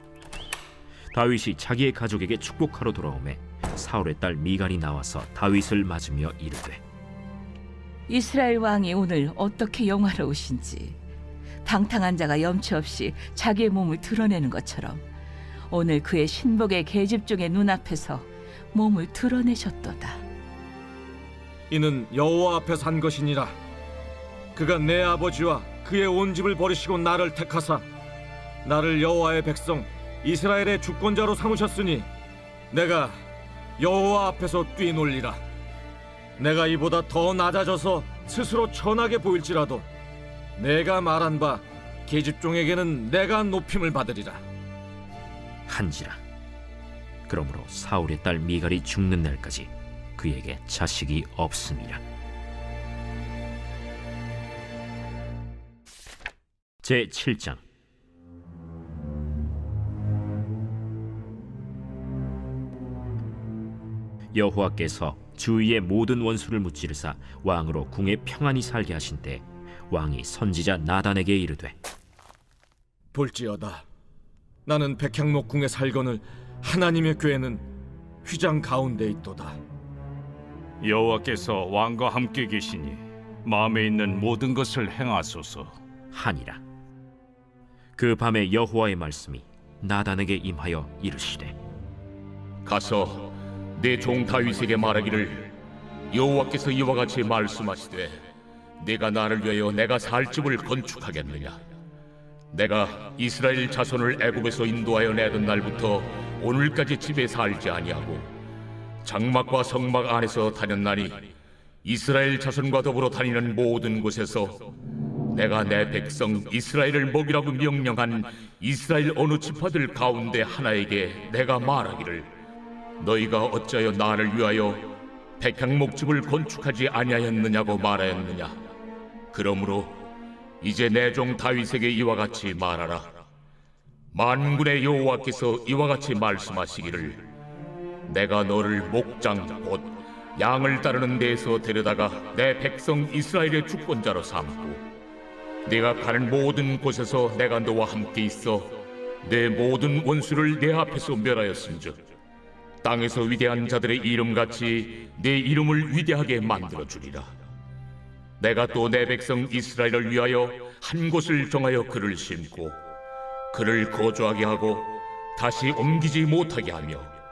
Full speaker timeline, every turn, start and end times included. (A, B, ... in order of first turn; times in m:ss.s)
0:01.1-0:06.8 A
0:08.1-0:11.0 B
0:11.6-0:15.0 B
0:15.7-0:20.2 B
0:21.7-0:23.6 C
0:24.5-0:27.8 C
0:28.6-0:32.1 C
0:32.7-0:33.2 C
0:33.8-0:35.4 C
0:36.4-0:39.9 C
0:40.6-0:44.4 C
0:45.7-0:46.2 A
0:47.3-0:52.0 A
0:56.8-0:57.6 A
1:04.3-1:11.7 A
1:13.1-1:13.8 C
1:14.6-1:17.6 C
1:18.2-1:19.6 C
1:20.8-1:25.8 D
1:26.1-1:26.6 A
1:28.0-1:31.6 A
1:32.6-1:35.5 E
1:36.1-1:38.2 E
1:38.8-1:41.6 E
1:42.5-1:48.3 E
1:49.0-1:51.3 E
1:51.8-1:54.7 E
1:55.3-2:02.3 E
2:03.0-2:08.6 E
2:09.3-2:10.0 E
2:10.6-2:13.2 E
2:14.1-2:17.3 E
2:18.1-2:24.9 E
2:25.6-2:32.0 E
2:32.8-2:37.3 E
2:38.4-2:42.8 E
2:43.5-2:47.1 E